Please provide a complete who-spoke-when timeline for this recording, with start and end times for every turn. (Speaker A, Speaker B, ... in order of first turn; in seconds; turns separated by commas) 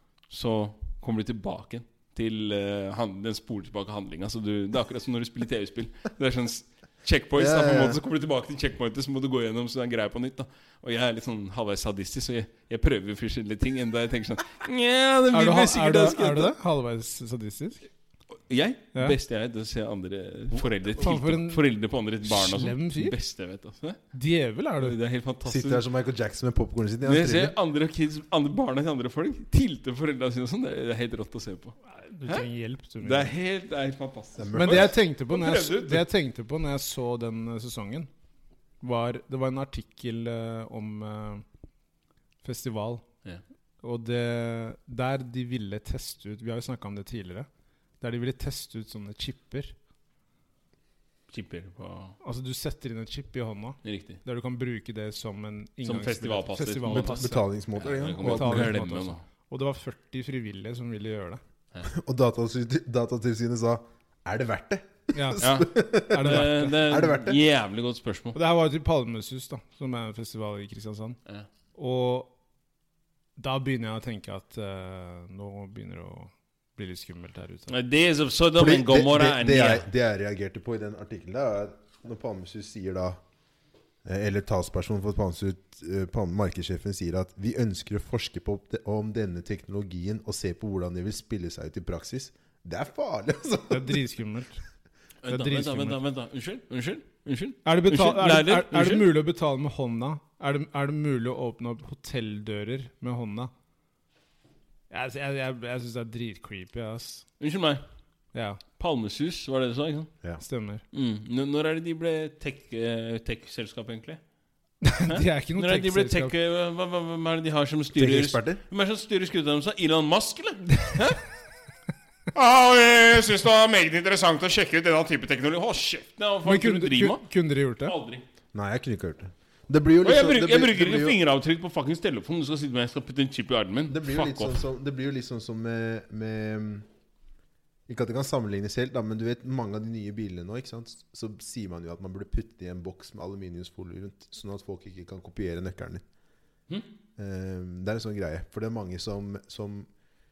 Speaker A: 0.3-16.5, Speaker B: 7.3-8.0, Speaker C: 15.3-17.8, Speaker A: 18.5-24.0, Speaker C: 21.0-21.6, Speaker C: 22.2-23.1, Speaker C: 24.1-24.9, Speaker A: 24.8-25.8, Speaker B: 25.4-27.5, Speaker A: 27.0-32.4, Speaker C: 31.9-33.3, Speaker A: 33.0-36.1, Speaker B: 34.4-34.9, Speaker C: 34.5-38.1, Speaker C: 38.8-41.4, Speaker C: 42.4-43.0, Speaker C: 43.8-47.5, Speaker C: 48.0-49.7, Speaker A: 51.3-52.2, Speaker C: 52.2-57.5, Speaker A: 53.8-54.2, Speaker A: 55.8-59.2, Speaker B: 56.9-58.8, Speaker C: 58.2-61.4, Speaker B: 61.8-67.4, Speaker C: 65.1-65.5, Speaker A: 65.4-68.3, Speaker C: 66.1-66.8, Speaker C: 68.3-71.2, Speaker C: 71.7-72.3, Speaker C: 73.4-77.7, Speaker A: 77.7-79.9, Speaker B: 78.5-83.2, Speaker B: 84.0-94.0, Speaker C: 93.7-94.6, Speaker A: 95.2-99.2, Speaker C: 95.3-96.0, Speaker C: 97.6-103.5, Speaker C: 104.9-107.2, Speaker A: 107.4-107.8, Speaker C: 108.3-108.6, Speaker A: 108.8-110.1, Speaker C: 110.4-110.8, Speaker A: 110.9-114.2, Speaker C: 114.8-116.3, Speaker A: 115.0-121.2, Speaker B: 118.0-118.6, Speaker A: 122.3-127.2, Speaker C: 126.4-127.9, Speaker A: 127.8-128.2, Speaker B: 128.5-131.2, Speaker A: 130.0-134.6, Speaker B: 133.9-136.8, Speaker B: 137.9-146.0, Speaker B: 147.2-149.9